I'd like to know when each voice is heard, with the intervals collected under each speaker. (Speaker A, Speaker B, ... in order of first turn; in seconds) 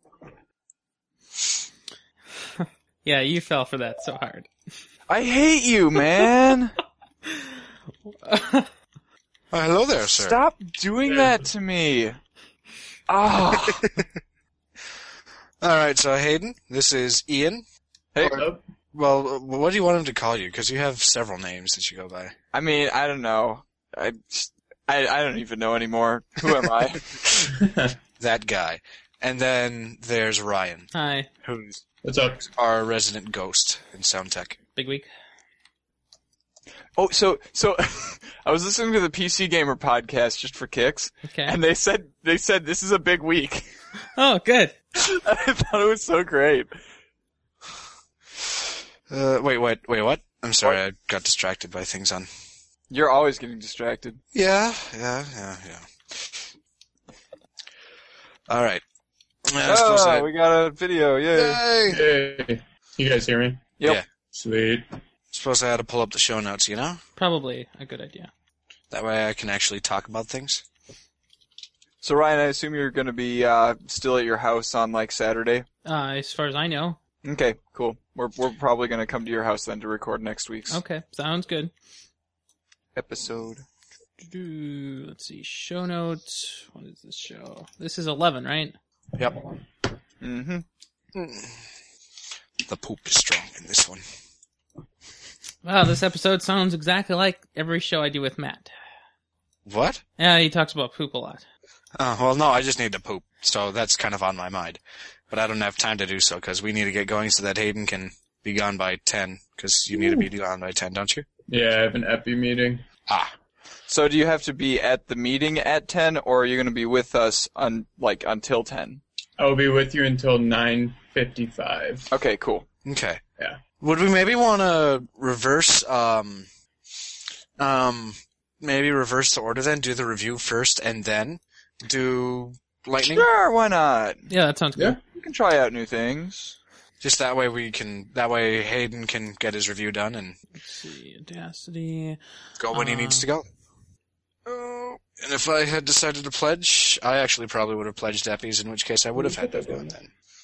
Speaker A: 2.5-4.5, 8.2-8.7, 30.9-31.3, 34.8-35.1, 41.2-41.6, 44.1-44.7, 67.2-68.3, 75.8-77.0, 80.7-81.7, 84.2-88.7, 95.6-98.7, 100.2-101.4, 134.3-135.0, 140.6-142.2, 142.7-143.2
Speaker B: 5.1-6.8, 10.0-12.2, 13.1-13.9, 22.5-27.2, 37.0-43.7, 44.9-46.7, 52.9-54.2, 59.6-61.6, 72.0-75.6, 77.2-80.8, 82.9-83.6, 90.2-90.6, 113.9-119.0, 122.1-122.7, 133.0-134.3, 135.1-136.5
Speaker C: 9.5-10.4, 13.7-14.1, 15.6-17.6, 18.9-22.3, 28.2-30.9, 31.4-31.8, 32.5-34.6, 49.1-52.3, 54.3-56.5, 58.5-58.8, 59.5-60.3, 61.3-62.0, 65.3-67.0, 68.9-70.6, 89.1-89.4, 91.1-91.7, 92.7-94.0, 99.7-100.0, 102.0-111.2, 122.8-123.2, 123.8-126.5, 127.6-133.3, 137.0-140.3, 142.6-143.5, 144.4-150.1
Speaker D: 18.2-18.6, 27.5-27.9, 32.0-32.5, 61.9-63.7, 64.3-64.8, 109.9-110.3, 111.5-112.8, 119.4-122.1, 134.8-135.0, 149.1-149.9